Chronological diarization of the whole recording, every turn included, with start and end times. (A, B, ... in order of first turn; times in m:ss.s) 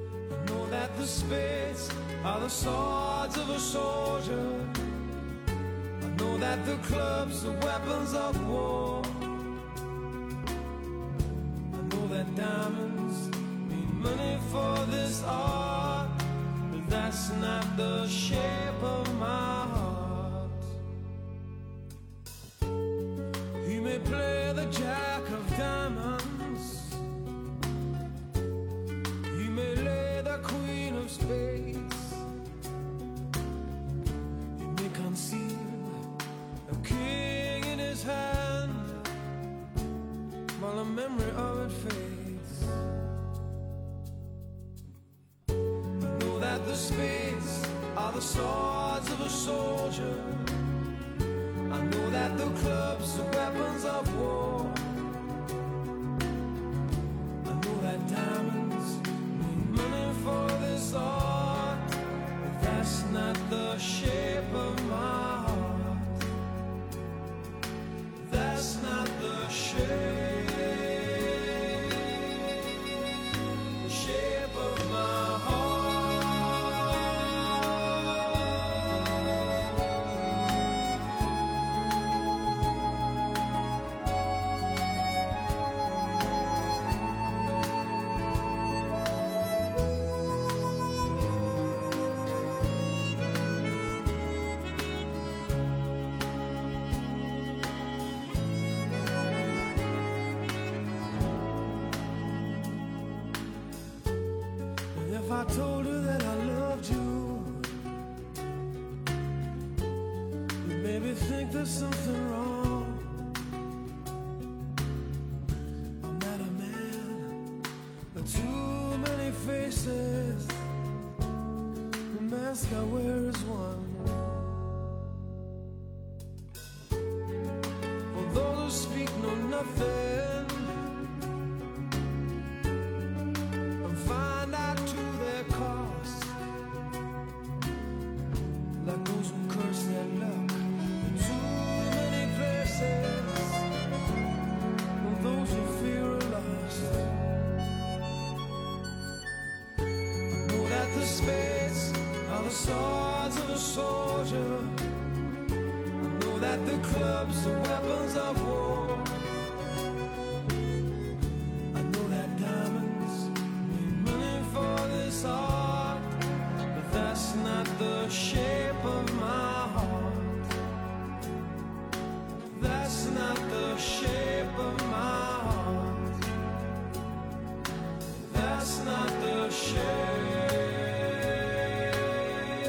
0:00.3-0:04.8 A
0:06.0-0:09.5 A
0:11.7-0:20.7 A
0:23.6-0:27.0 A
0:29.3-0:32.2 A
0:34.5-0:36.1 A
0:36.6-0:39.1 A
0:40.6-0:42.7 A
0:46.0-0:50.6 A
0:51.7-0:54.9 A
0:57.4-1:06.2 A
1:08.2-1:12.0 A
1:13.8-1:17.5 A
1:44.9-1:47.8 A
1:50.6-1:53.2 A
1:56.0-1:57.5 A
1:58.1-2:00.6 A
2:02.1-2:04.4 A
2:08.1-2:10.9 A
2:13.8-2:16.3 A
2:18.8-2:23.7 A
2:25.0-2:27.1 A
2:30.3-2:34.9 A
2:36.0-2:39.3 A
2:41.7-2:50.5 A
2:52.5-2:56.2 A
2:58.1-3:01.6 A